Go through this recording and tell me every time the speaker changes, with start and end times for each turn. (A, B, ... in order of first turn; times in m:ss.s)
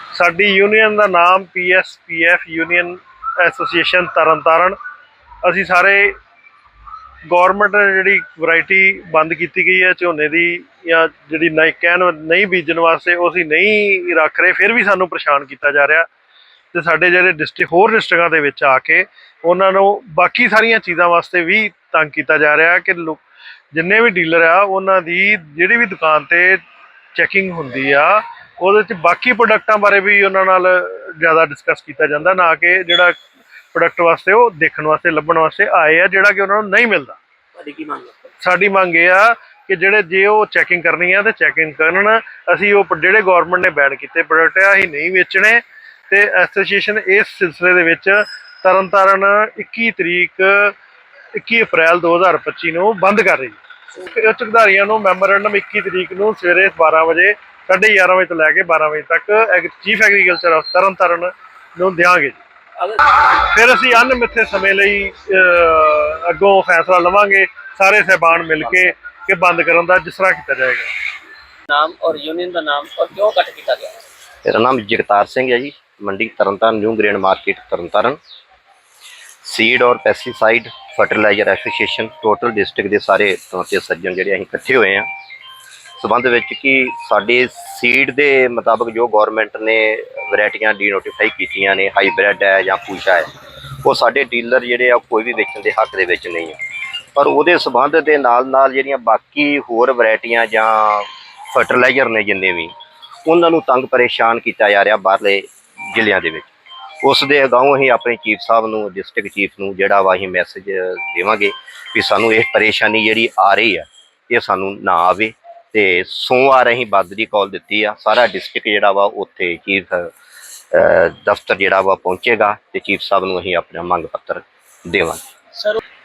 0:00.1-0:04.8 A
0:05.4-0:06.1 A
0:07.3-0:16.1 A
0:16.7-0:23.2 A
0:23.7-0:26.6 A
0:27.2-0:33.2 A
0:33.7-0:37.2 A
0:37.6-0:38.3 B
0:38.4-0:50.7 A
0:51.4-1:02.4 A
1:02.8-1:03.1 B
1:03.3-1:10.9 A
1:08.5-1:08.9 B
1:11.7-1:14.0 B
1:14.4-1:18.2 C
1:19.4-1:25.1 C
1:26.0-1:33.3 C
1:33.8-1:36.6 C
1:37.1-1:42.7 C
1:43.2-1:46.5 C
1:47.0-2:00.1 C
2:00.7-2:05.2 C
2:05.5-2:05.8 B